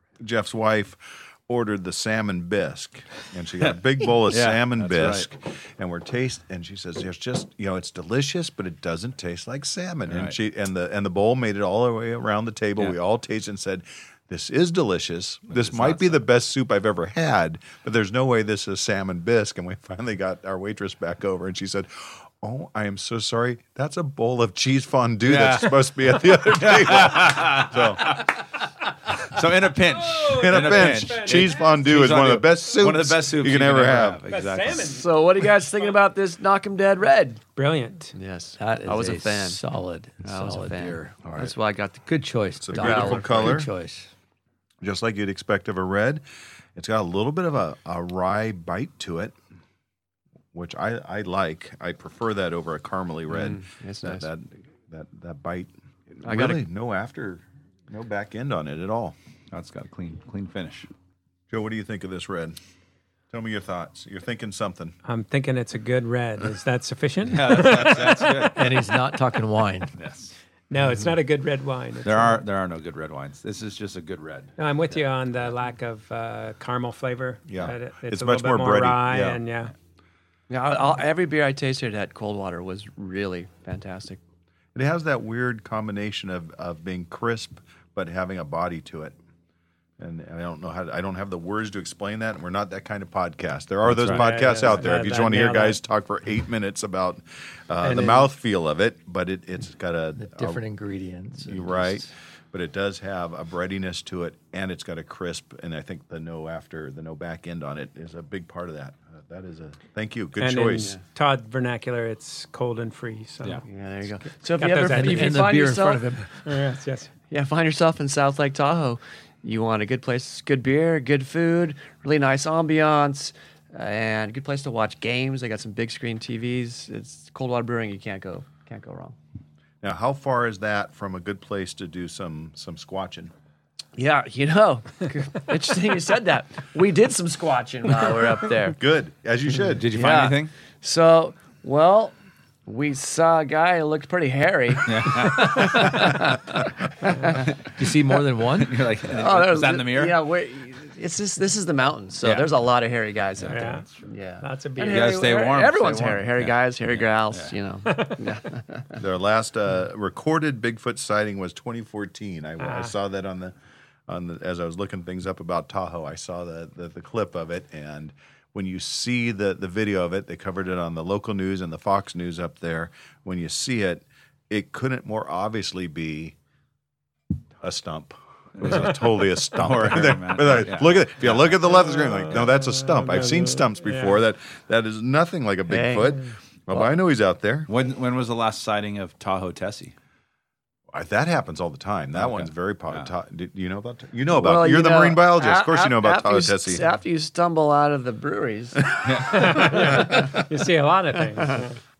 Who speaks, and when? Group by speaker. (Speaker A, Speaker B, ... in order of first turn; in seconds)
Speaker A: 0.2-28.2, 30.3-34.2, 41.2-41.5, 42.6-43.7, 44.8-46.2, 46.7-49.3, 50.5-59.1, 61.5-62.6, 63.3-64.9, 77.5-79.4, 84.7-89.2, 90.0-100.6, 101.4-110.9, 129.8-133.3, 138.7-139.9, 159.0-163.6, 164.1-176.3, 177.6-187.7, 190.9-196.8
Speaker B: 4.3-5.3, 10.1-10.3, 15.5-16.2, 25.2-28.4, 29.2-34.9, 59.5-60.9, 67.2-68.7, 70.0-70.3, 72.0-74.5, 93.8-94.2, 139.7-140.5, 144.8-146.2, 148.6-150.2, 152.2-152.5, 153.5-153.8, 154.8-157.5, 178.6-179.0, 179.5-181.7, 187.7-189.9, 192.1-193.1, 199.0-199.8
Speaker C: 30.1-31.8, 34.3-35.0, 37.5-38.1, 65.0-68.5, 70.7-72.4, 74.6-79.7, 94.0-95.8, 97.8-98.3, 110.4-113.6, 114.6-115.5, 116.4-117.1, 153.5-153.8, 154.4-155.1, 162.6-162.9, 181.9-184.1, 199.2-201.8
Speaker D: 34.8-37.4, 38.1-39.6, 40.2-42.1, 42.7-43.6, 53.3-54.3, 56.2-56.6, 80.5-84.2, 113.7-116.0, 117.3-129.2, 133.9-138.8, 139.9-142.1, 142.7-146.5, 147.0-147.4, 149.1-159.0, 185.7-186.2, 194.3-198.8
Speaker E: 38.6-41.2, 42.0-44.1, 68.5-69.9, 100.2-102.1, 114.9-116.3, 147.8-148.8